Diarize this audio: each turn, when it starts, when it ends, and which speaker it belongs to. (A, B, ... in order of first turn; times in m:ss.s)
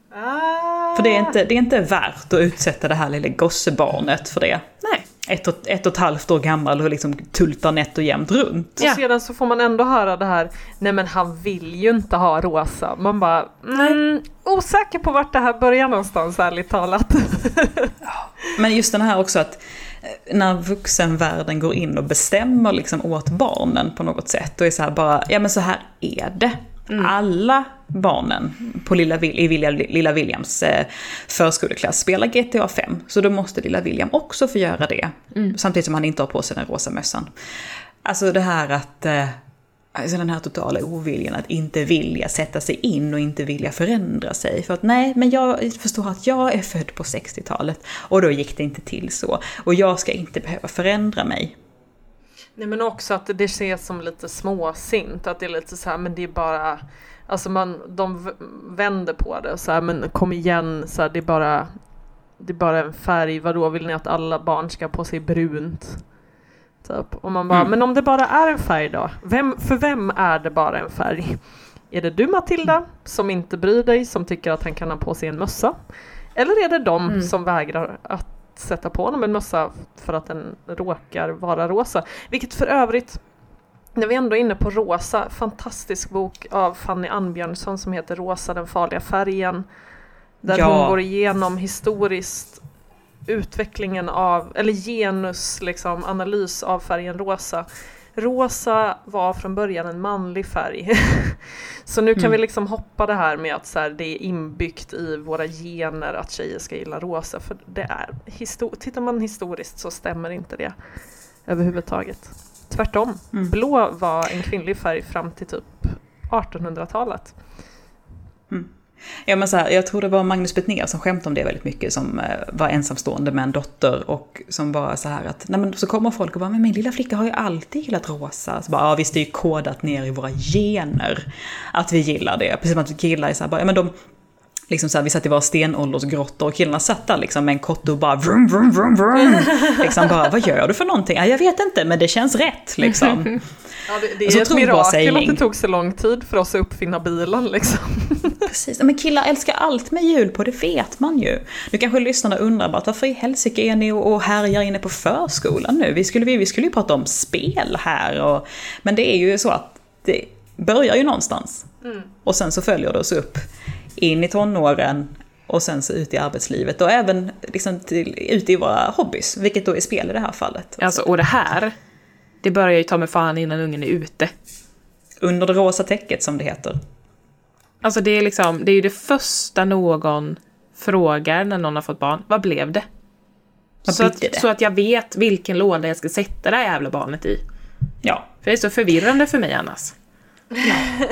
0:00.1-0:01.4 A
0:01.0-0:04.7 B
0:05.2-0:08.8 B
0:08.8-0:18.0 A
0:18.1-0:37.3 B
0:38.0-0:39.4 B
0:39.9-0:51.5 B
0:52.6-1:01.7 A
1:02.4-1:06.1 A
1:06.8-1:23.2 A
1:24.0-1:29.6 A
1:30.4-1:32.6 A
1:30.5-1:31.0 B
1:33.3-1:37.6 A
1:38.2-1:50.8 A
1:51.4-1:57.4 A
1:59.2-2:13.9 B
2:14.7-2:23.4 B
2:23.9-2:28.4 A
2:24.2-2:25.4 B
2:28.5-2:51.0 B
2:41.8-2:42.1 A
2:50.8-2:51.7 C
2:52.4-2:54.3 C
2:55.2-2:56.8 B
2:57.8-3:02.9 C
3:03.8-3:04.4 B
3:03.9-3:07.4 C
3:08.0-3:08.3 B
3:08.4-3:10.0 C
3:10.6-3:11.0 B